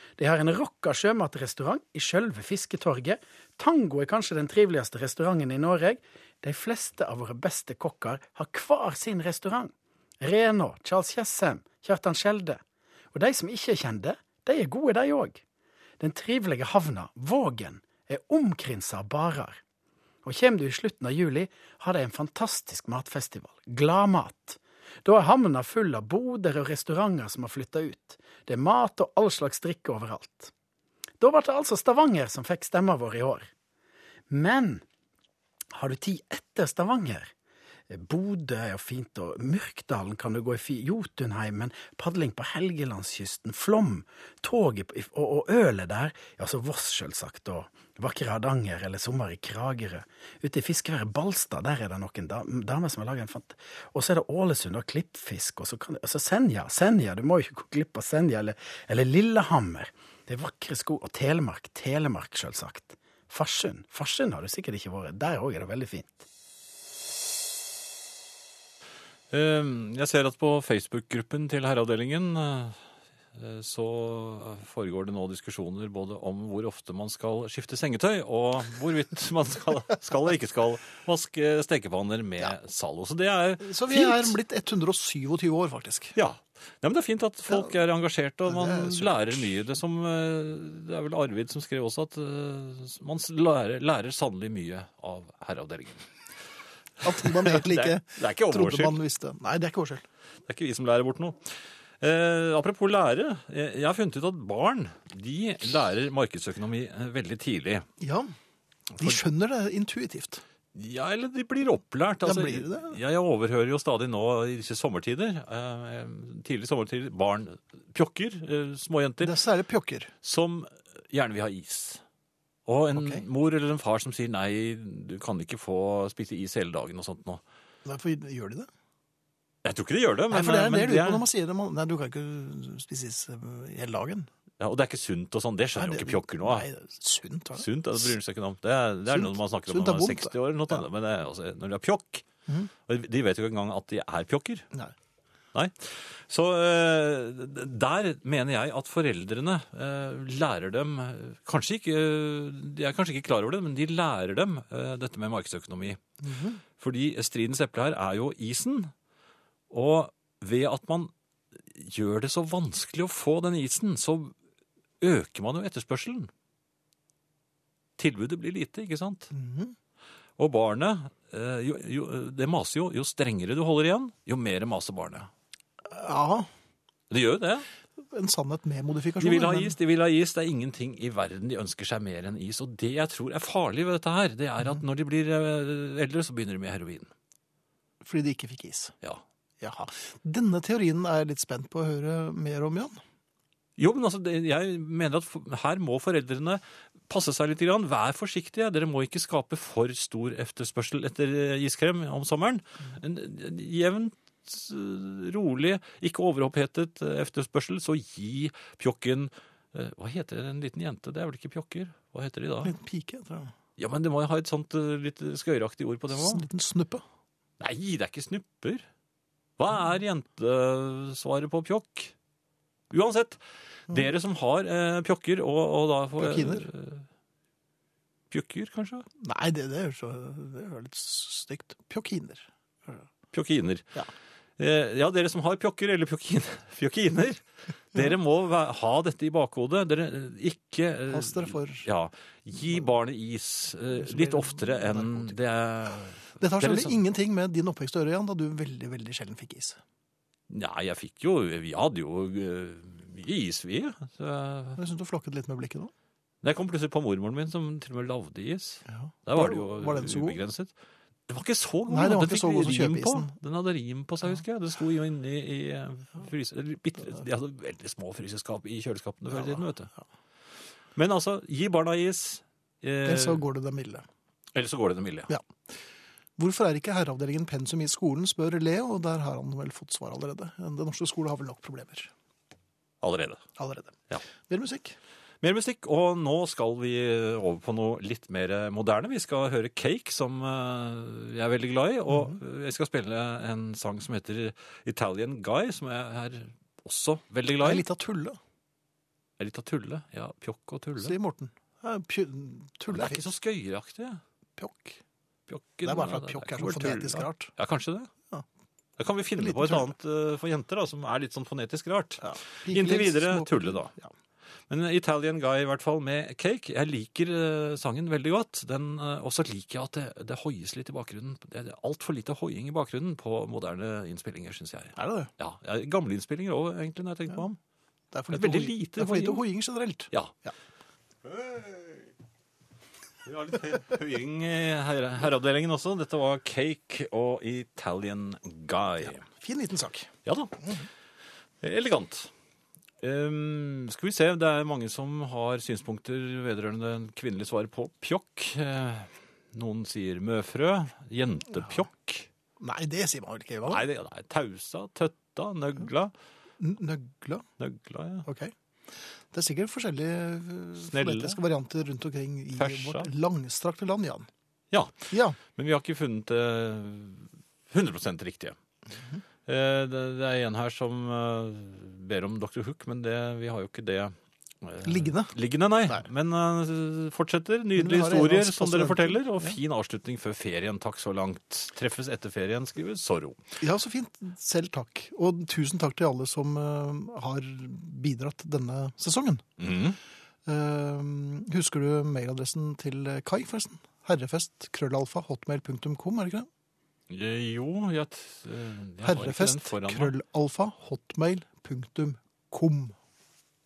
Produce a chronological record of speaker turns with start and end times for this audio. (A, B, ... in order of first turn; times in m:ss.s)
0:00.2-0:12.6 A
0:13.1-0:15.4 A
0:16.0-0:19.6 A
0:20.2-0:30.5 A
0:31.2-0:33.5 A
0:34.3-0:34.8 A
0:35.7-0:37.3 A
0:37.9-1:06.2 A
1:09.3-1:12.8 B
1:13.3-1:24.4 B
1:23.6-1:26.2 C
1:26.2-1:36.0 B
1:28.5-1:29.4 C
1:37.0-1:40.0 C
1:37.0-1:39.0 B
1:40.5-1:41.5 B
1:42.0-1:47.9 B
1:48.0-1:48.3 C
1:49.0-1:50.4 C
1:50.7-1:59.4 B
1:52.2-1:53.0 C
1:59.2-2:00.1 C
2:00.2-2:02.0 B
2:02.7-2:07.4 B
2:02.9-2:03.2 C
2:07.8-2:08.7 C
2:09.6-2:11.2 B
2:10.3-2:14.3 C
2:14.6-2:16.6 B
2:15.7-2:18.0 C
2:17.6-2:22.2 B
2:19.1-2:20.8 C
2:22.9-2:24.6 B
2:25.5-2:36.0 B
2:36.2-2:36.6 C
2:36.8-2:38.9 B
2:39.7-2:41.1 B
2:41.7-2:44.3 B
2:45.0-2:46.3 B
2:48.0-2:49.3 B
2:49.3-2:49.7 C
2:50.4-2:55.3 B
2:55.8-2:56.5 C
2:57.1-2:57.7 B
2:58.1-2:59.7 C
2:59.2-3:07.1 B
3:08.0-3:08.9 C
3:09.6-3:13.0 C
3:13.8-3:32.7 B
3:32.6-3:33.5 C
3:33.8-3:36.4 B
3:36.1-3:37.0 C
3:37.6-3:38.8 B
3:39.6-3:42.1 B
3:42.9-3:47.0 B
3:46.2-3:46.7 C
3:48.3-3:49.1 B
3:49.2-3:53.0 C
3:53.3-3:54.0 B
3:54.6-4:07.0 B
4:01.1-4:01.9 C
4:03.9-4:05.4 C
4:06.4-4:09.8 C
4:10.5-4:14.8 B
4:14.8-4:15.9 C
4:16.4-4:20.7 B
4:18.9-4:20.4 C
4:21.3-4:29.9 B
4:21.9-4:23.3 C
4:29.3-4:29.6 C
4:31.0-4:33.4 B
4:33.0-4:34.0 C
4:34.5-4:35.3 B
4:36.4-4:42.1 C
4:43.0-4:43.4 B
4:43.6-4:45.0 C
4:45.4-4:57.8 B
4:52.1-4:52.4 C
4:57.6-4:58.4 C
4:59.4-5:01.2 B
5:01.0-5:03.2 C
5:02.9-5:04.2 B
5:04.6-5:05.0 C
5:05.5-5:08.1 B
5:05.8-5:07.5 C
5:09.0-5:13.9 B
5:09.4-5:09.9 C
5:12.2-5:14.1 C
5:14.7-5:27.6 B
5:25.0-5:25.3 C
5:28.1-5:30.5 C
5:28.3-5:29.4 B
5:31.3-5:32.0 B
5:33.2-5:39.2 B
5:39.3-5:40.1 C
5:40.2-5:40.6 B
5:41.6-5:42.3 B
5:43.0-5:52.3 B
5:52.6-5:53.8 C
5:53.6-5:56.1 B
5:56.6-5:57.4 C
5:57.6-5:58.3 B
5:58.2-5:58.5 C
5:59.3-6:04.3 C
6:00.8-6:01.4 B
6:02.6-6:03.1 B
6:04.7-6:08.6 B
6:05.1-6:05.4 C
6:08.9-6:09.2 C
6:09.4-6:23.4 B
6:14.8-6:15.3 C
6:17.8-6:19.6 C
6:23.6-6:29.4 C
6:29.6-6:30.0 B
6:30.4-6:36.5 C
6:37.1-6:40.1 B
6:39.0-6:42.9 C